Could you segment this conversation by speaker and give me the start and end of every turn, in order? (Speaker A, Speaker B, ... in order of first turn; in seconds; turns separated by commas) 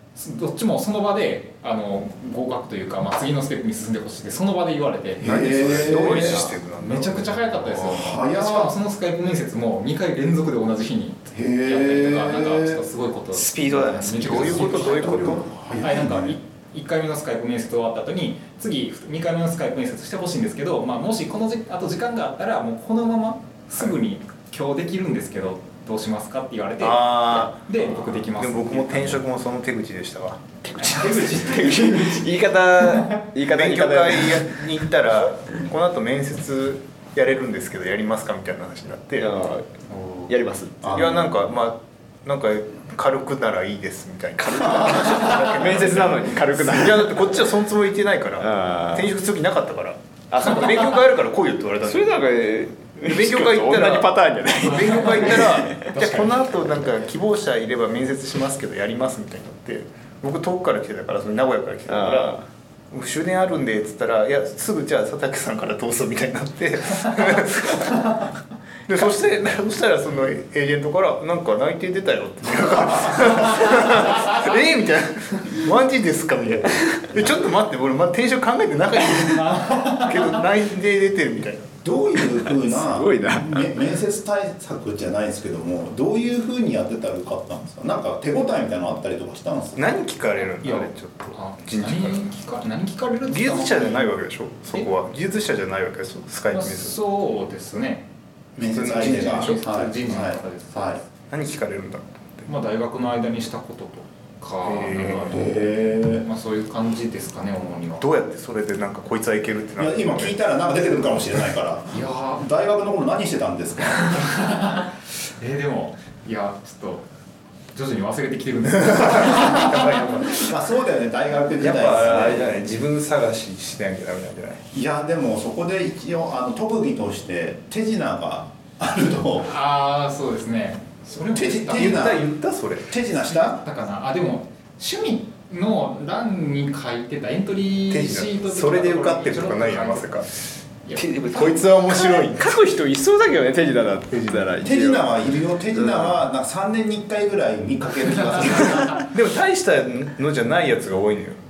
Speaker A: 0.1-6.0, Speaker B: 5.2-6.5, Speaker C: 5.2-7.8, Speaker D: 5.8-6.5, Speaker A: 6.8-29.2, Speaker B: 7.8-8.7, Speaker B: 11.3-12.8, Speaker D: 13.3-15.2, Speaker C: 14.2-15.4, Speaker B: 14.4-16.4, Speaker C: 26.8-30.6, Speaker D: 30.7-34.7, Speaker A: 30.8-32.1, Speaker B: 31.0-31.7, Speaker A: 32.9-33.2, Speaker C: 33.4-39.3, Speaker D: 39.2-39.6, Speaker A: 39.9-40.3, Speaker D: 40.3-41.0, Speaker B: 40.8-41.2, Speaker C: 40.9-52.2, Speaker D: 44.4-47.5, Speaker D: 48.4-49.1, Speaker D: 50.3-51.0, Speaker D: 51.8-56.2, Speaker C: 53.0-62.4, Speaker A: 54.7-56.5, Speaker D: 61.9-62.4, Speaker C: 62.9-68.2, Speaker C: 68.9-81.7, Speaker D: 76.7-77.0, Speaker B: 77.1-77.4, Speaker A: 79.2-80.4, Speaker B: 81.8-89.9, Speaker D: 82.3-83.8, Speaker C: 89.8-92.2, Speaker A: 90.6-94.1, Speaker C: 93.3-96.9, Speaker A: 96.5-98.0, Speaker B: 98.6-101.0, Speaker C: 98.7-99.6, Speaker A: 98.9-100.9, Speaker C: 101.3-102.5, Speaker A: 102.5-105.6, Speaker C: 104.6-105.5, Speaker B: 105.1-106.2, Speaker A: 106.2-108.0, Speaker C: 108.0-110.4, Speaker B: 109.8-114.3, Speaker A: 111.9-112.4, Speaker A: 114.0-117.0, Speaker A: 117.7-120.1, Speaker C: 118.7-120.5, Speaker B: 120.3-122.7, Speaker C: 121.5-124.6, Speaker B: 124.7-129.5, Speaker A: 129.4-132.1, Speaker B: 131.3-132.3, Speaker C: 131.7-132.9, Speaker B: 132.9-133.6, Speaker A: 133.2-140.2, Speaker C: 137.9-140.3, Speaker A: 140.8-141.5, Speaker D: 140.9-146.2, Speaker C: 141.3-142.6, Speaker C: 144.1-144.6, Speaker B: 144.6-149.1, Speaker C: 149.0-151.4